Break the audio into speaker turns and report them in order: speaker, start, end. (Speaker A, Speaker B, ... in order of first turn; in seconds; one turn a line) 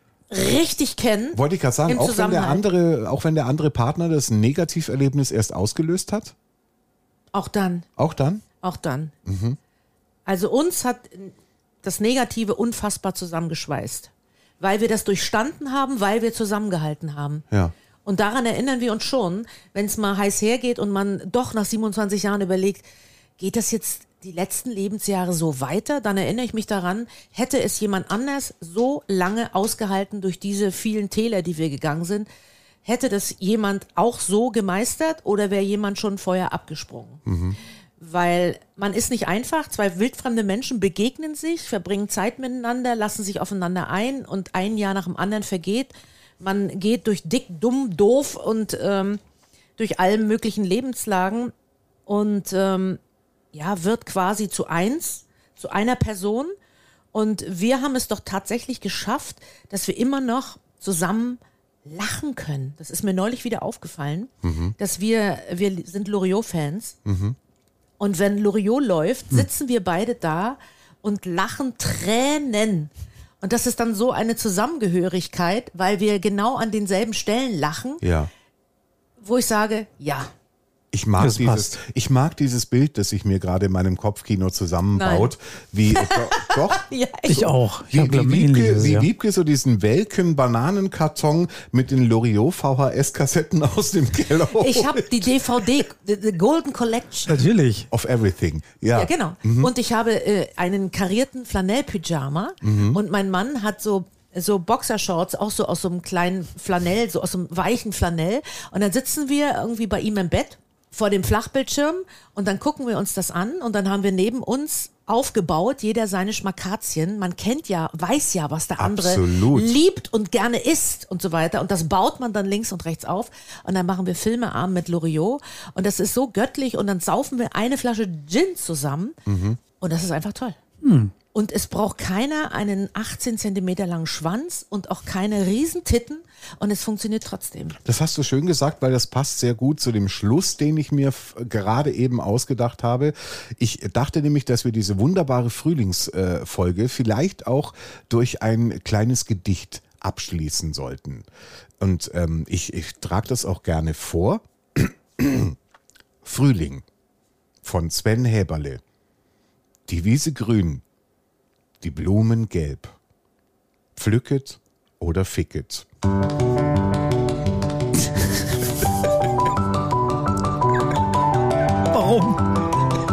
Speaker A: 0.3-2.6
Speaker B: 1.3-6.3
Speaker A: 7.3-7.9
Speaker B: 8.0-8.4
Speaker A: 8.6-9.1
Speaker B: 9.2-9.6
Speaker A: 10.2-17.4
Speaker A: 18.0-22.8
Speaker A: 23.4-32.3
Speaker A: 32.8-37.2
Speaker B: 37.2-37.6
Speaker A: 38.0-49.2
Speaker A: 49.8-51.5
Speaker A: 52.1-53.0
Speaker A: 53.5-56.5
Speaker A: 57.1-67.0
Speaker B: 64.4-64.7
Speaker B: 67.0-67.3
Speaker A: 68.0-78.0
Speaker B: 78.0-78.3
Speaker A: 79.2-80.3
Speaker B: 80.9-86.8
Speaker C: 81.2-81.8
Speaker A: 84.9-85.3
Speaker A: 85.9-87.6
Speaker C: 87.3-89.1
Speaker B: 87.9-95.4
Speaker A: 94.6-97.3
Speaker C: 97.3-97.9
Speaker B: 97.9-99.7
Speaker A: 98.9-129.2
Speaker B: 102.6-103.0
Speaker B: 118.8-119.8
Speaker B: 129.2-129.6
Speaker A: 129.8-130.6
Speaker C: 130.8-131.1
Speaker A: 131.3-137.8
Speaker B: 137.8-151.3
Speaker B: 151.8-155.6
Speaker B: 156.2-156.8
Speaker B: 157.6-158.8
Speaker B: 159.9-160.8
Speaker B: 161.8-162.9
Speaker B: 163.9-165.9
Speaker C: 171.9-172.4